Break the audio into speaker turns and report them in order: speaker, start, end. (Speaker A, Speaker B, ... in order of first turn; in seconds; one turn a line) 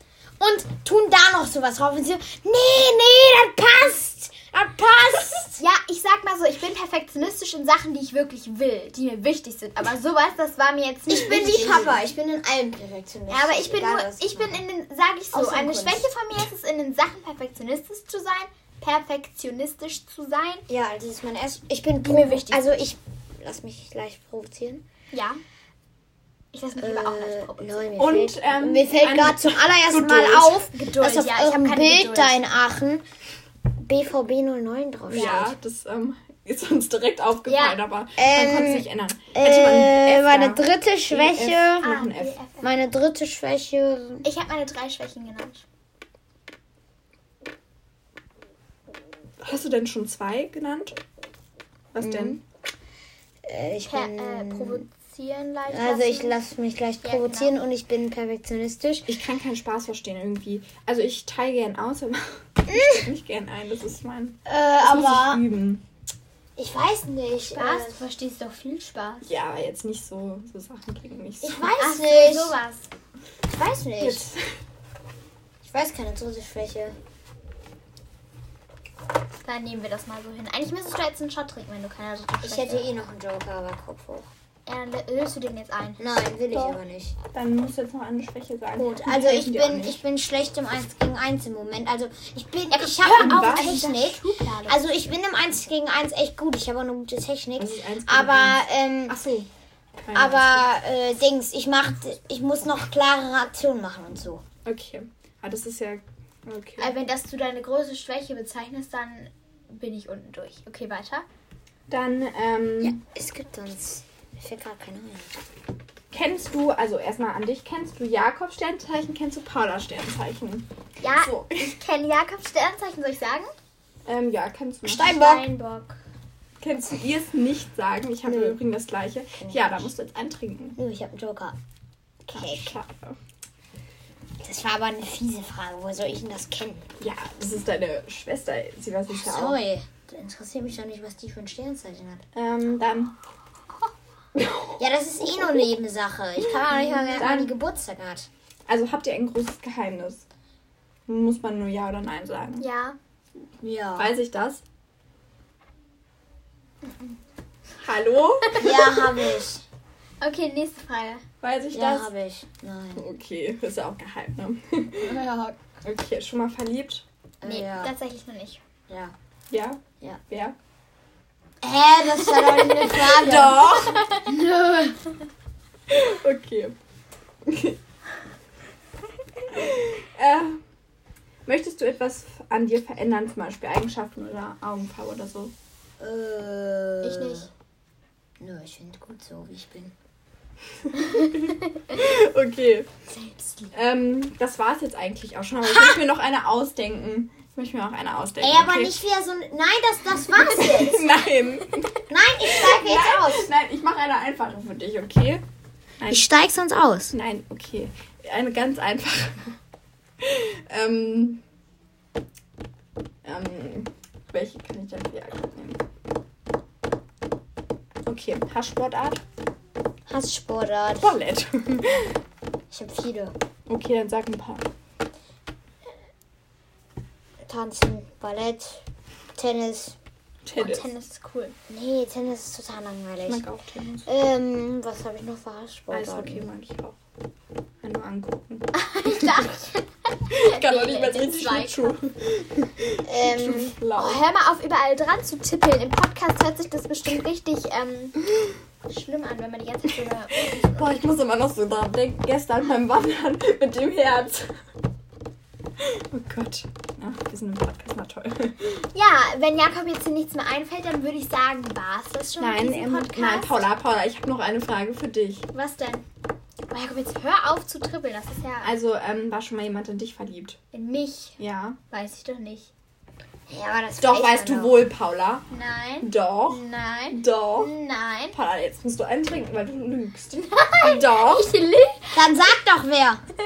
Speaker A: 0.4-5.6
Speaker B: 5.6-12.1
Speaker A: 11.1-14.6
Speaker B: 13.3-20.6
Speaker A: 15.3-16.1
Speaker A: 20.7-24.8
Speaker B: 22.0-22.6
Speaker B: 25.1-25.4
Speaker B: 26.5-28.0
Speaker A: 26.8-33.0
Speaker C: 28.0-30.7
Speaker B: 30.5-32.5
Speaker A: 33.8-35.5
Speaker C: 35.1-42.4
Speaker B: 35.1-35.5
Speaker B: 37.5-37.8
Speaker A: 38.1-41.9
Speaker B: 41.8-42.8
Speaker A: 42.6-44.2
Speaker B: 44.2-45.6
Speaker C: 49.4-51.0
Speaker C: 51.9-52.4
Speaker A: 52.0-52.4
Speaker A: 53.4-54.9
Speaker B: 53.9-56.4
Speaker A: 55.7-59.1
Speaker B: 57.0-57.6
Speaker C: 59.1-65.8
Speaker A: 62.7-63.1
Speaker A: 64.5-65.4
Speaker A: 66.6-68.0
Speaker B: 67.5-69.2
Speaker C: 69.2-71.7
Speaker A: 71.4-72.5
Speaker B: 71.8-72.9
Speaker A: 73.5-74.3
Speaker C: 74.0-74.5
Speaker A: 75.6-77.0
Speaker B: 79.4-82.9
Speaker A: 82.4-84.3
Speaker B: 84.7-86.2
Speaker A: 86.0-87.2
Speaker C: 86.5-86.8
Speaker C: 87.3-90.0
Speaker A: 88.8-99.2
Speaker B: 92.7-94.8
Speaker C: 93.1-93.8
Speaker C: 97.6-99.5
Speaker C: 100.0-100.6
Speaker A: 100.1-104.4
Speaker C: 104.6-106.9
Speaker B: 106.8-111.2
Speaker C: 111.9-113.0
Speaker A: 112.8-115.3
Speaker C: 116.1-121.8
Speaker B: 121.0-123.5
Speaker C: 124.0-125.1
Speaker A: 124.8-125.5
Speaker B: 125.0-126.0
Speaker C: 126.6-130.8
Speaker A: 128.2-128.6
Speaker A: 129.4-129.9
Speaker A: 130.8-131.6
Speaker C: 132.2-133.2
Speaker A: 132.3-132.7
Speaker A: 134.4-136.8
Speaker C: 137.0-139.6
Speaker A: 139.1-142.2
Speaker C: 142.3-143.1
Speaker C: 144.3-145.6
Speaker A: 144.8-148.3
Speaker B: 146.5-147.2
Speaker C: 147.2-147.5
Speaker C: 148.7-150.2
Speaker C: 151.1-152.7
Speaker B: 152.6-153.0
Speaker A: 153.6-154.1
Speaker C: 154.0-154.6
Speaker B: 156.8-157.2
Speaker C: 157.8-158.7
Speaker B: 158.4-159.3
Speaker A: 158.6-159.6
Speaker B: 160.2-161.2
Speaker C: 161.4-162.1
Speaker A: 161.7-163.1
Speaker C: 162.9-165.2
Speaker A: 165.0-165.6
Speaker C: 165.8-167.0
Speaker A: 167.4-167.9
Speaker B: 167.4-168.6
Speaker A: 168.9-169.1
Speaker C: 169.5-170.5
Speaker A: 171.6-174.9
Speaker B: 172.4-172.9
Speaker C: 172.8-174.1
Speaker B: 173.8-174.3
Speaker C: 175.9-176.8
Speaker C: 177.5-177.8
Speaker C: 179.5-180.6
Speaker C: 181.4-185.5
Speaker A: 186.0-187.5
Speaker B: 187.0-187.5
Speaker A: 188.4-189.9
Speaker C: 190.9-192.9
Speaker B: 191.0-191.6
Speaker B: 193.1-193.7
Speaker C: 193.7-198.9
Speaker B: 195.6-196.0
Speaker A: 198.4-201.0
Speaker C: 200.4-205.4
Speaker A: 202.1-203.5
Speaker C: 206.0-206.3
Speaker A: 206.1-207.1
Speaker C: 207.1-209.6
Speaker C: 210.2-211.4
Speaker C: 213.2-215.8
Speaker C: 218.1-219.2
Speaker A: 220.1-221.2
Speaker C: 221.0-222.1
Speaker A: 222.7-223.3
Speaker C: 223.7-224.6
Speaker A: 227.4-228.8
Speaker A: 229.3-229.9
Speaker C: 230.4-230.9
Speaker B: 230.5-231.5
Speaker A: 231.7-233.5
Speaker C: 233.2-234.1
Speaker A: 234.1-236.5
Speaker C: 235.9-237.0
Speaker C: 237.8-239.5
Speaker B: 238.7-242.0
Speaker C: 240.3-244.2
Speaker A: 243.1-243.8
Speaker B: 243.9-248.2
Speaker B: 248.9-251.0
Speaker C: 250.5-254.6
Speaker C: 255.8-258.8
Speaker B: 258.9-263.7
Speaker C: 262.4-265.5
Speaker B: 265.5-266.1
Speaker B: 266.7-268.7
Speaker C: 268.6-270.6
Speaker B: 270.7-271.4
Speaker C: 271.4-271.8
Speaker B: 271.9-272.7
Speaker A: 273.5-274.9
Speaker C: 274.0-275.4
Speaker B: 275.5-278.4
Speaker C: 276.0-277.7
Speaker C: 278.3-281.5
Speaker B: 280.4-282.4
Speaker A: 282.1-283.2